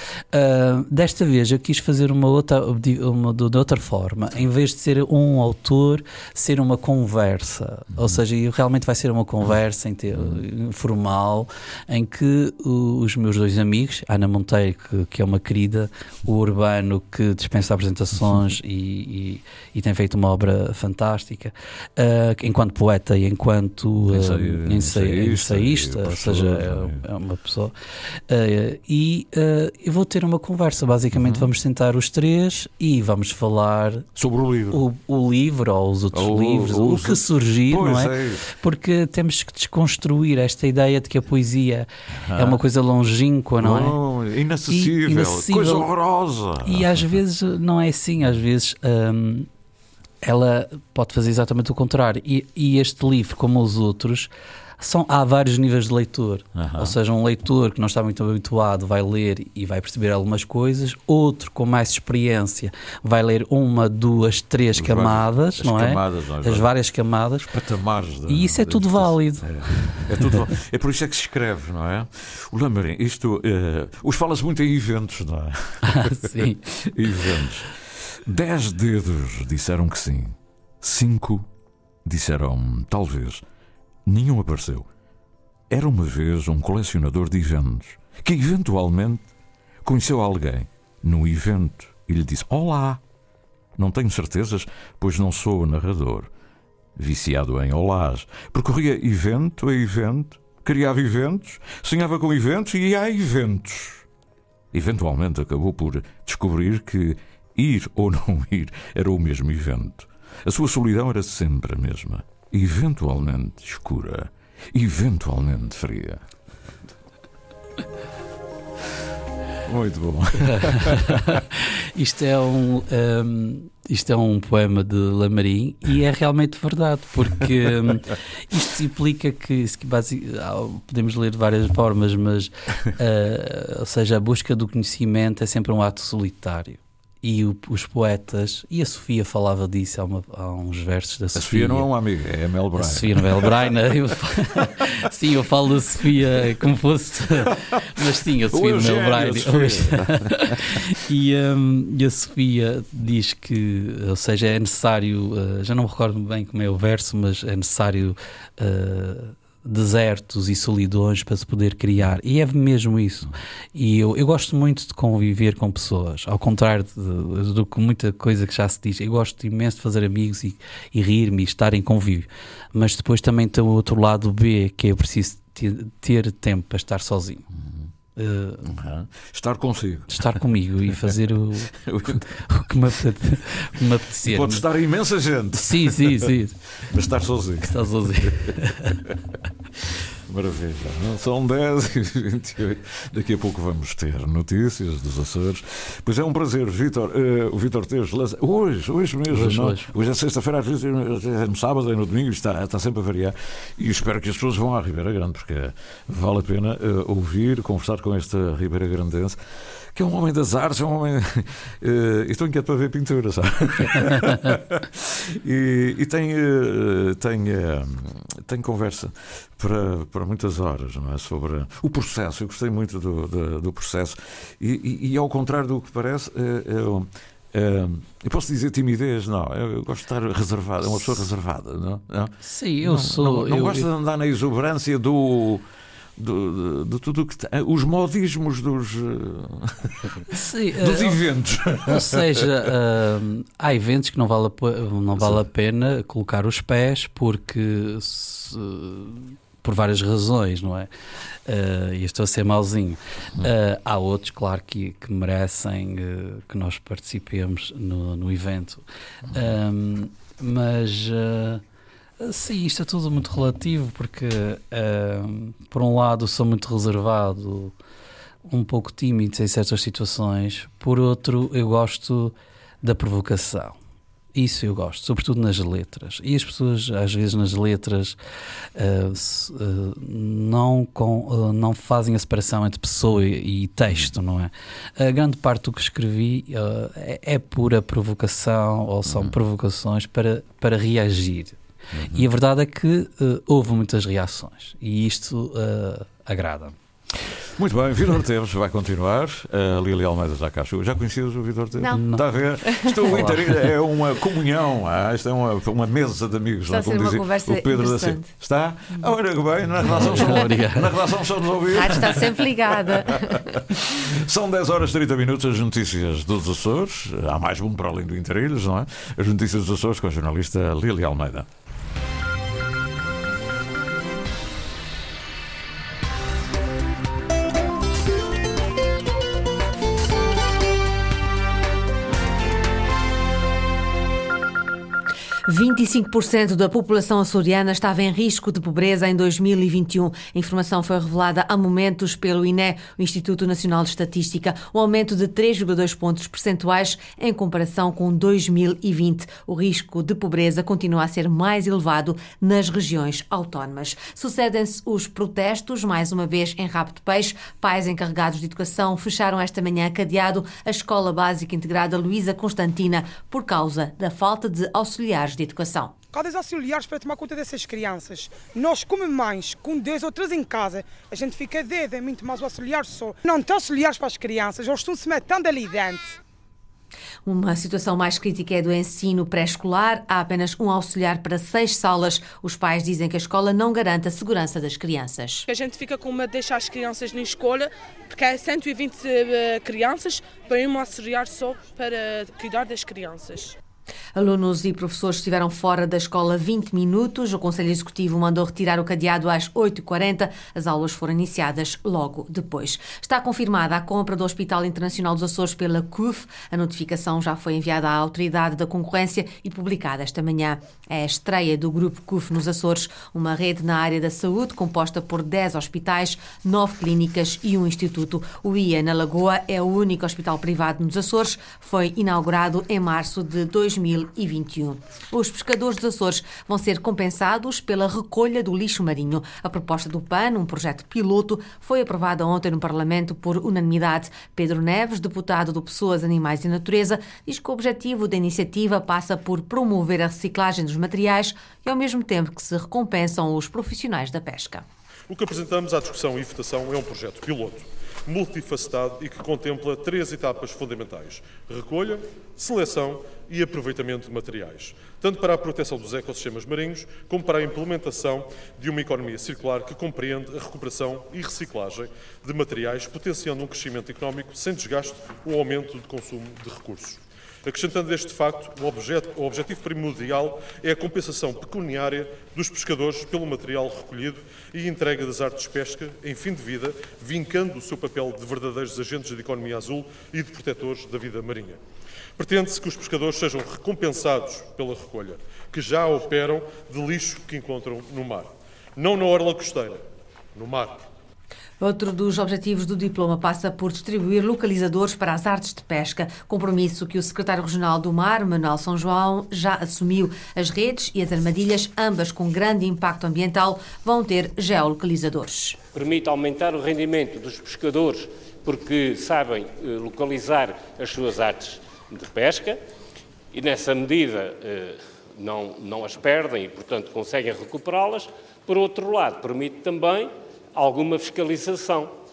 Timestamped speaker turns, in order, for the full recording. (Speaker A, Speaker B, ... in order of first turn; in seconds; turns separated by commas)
Speaker A: 0.3-27.7, Speaker B: 10.1-10.4, Speaker B: 24.1-27.0, Speaker A: 28.3-34.1, Speaker B: 31.1-31.5, Speaker B: 34.2-34.8, Speaker A: 34.7-44.0, Speaker B: 36.1-38.4, Speaker B: 42.1-42.6, Speaker B: 43.6-47.1, Speaker A: 44.7-45.9, Speaker A: 46.6-49.5, Speaker A: 50.2-67.5, Speaker B: 56.5-57.0, Speaker B: 64.8-66.7, Speaker B: 67.4-81.5, Speaker A: 68.3-70.4, Speaker A: 75.9-76.7, Speaker B: 82.0-83.4, Speaker B: 84.1-84.9, Speaker B: 85.7-89.3, Speaker B: 89.8-93.0, Speaker B: 93.8-96.3, Speaker B: 97.0-104.0, Speaker B: 104.7-116.2, Speaker B: 119.7-121.4, Speaker A: 120.6-141.9, Speaker B: 141.4-143.5, Speaker A: 142.8-177.5, Speaker B: 148.0-150.8, Speaker B: 177.6-177.9, Speaker A: 178.2-178.7, Speaker B: 178.6-180.4, Speaker A: 180.1-184.7, Speaker B: 180.9-182.4, Speaker B: 184.2-189.2, Speaker A: 185.6-186.7, Speaker A: 187.7-189.0, Speaker B: 190.2-209.4, Speaker A: 199.3-199.9, Speaker B: 209.9-235.7, Speaker A: 232.4-233.9, Speaker B: 236.2-240.1, Speaker A: 240.3-241.2, Speaker B: 240.8-242.5, Speaker A: 241.7-250.9, Speaker B: 245.2-245.4, Speaker A: 251.5-261.6, Speaker A: 262.2-267.7, Speaker A: 268.5-273.8, Speaker A: 274.4-278.2, Speaker A: 278.8-291.6, Speaker B: 289.1-289.3, Speaker B: 291.9-292.3, Speaker A: 292.1-296.8, Speaker B: 297.6-321.5, Speaker A: 301.9-302.2, Speaker C: 302.7-303.3, Speaker A: 303.1-303.4, Speaker C: 306.7-308.3, Speaker A: 309.9-310.9, Speaker C: 311.7-313.6, Speaker C: 335.5-365.9, Speaker D: 366.1-376.2, Speaker C: 377.2-385.5, Speaker E: 385.5-393.6, Speaker C: 394.1-444.7, Speaker F: 445.1-481.6, Speaker F: 482.2-489.8, Speaker F: 490.4-490.8, Speaker C: 491.6-505.6, Speaker G: 505.7-512.6, Speaker G: 513.3-521.9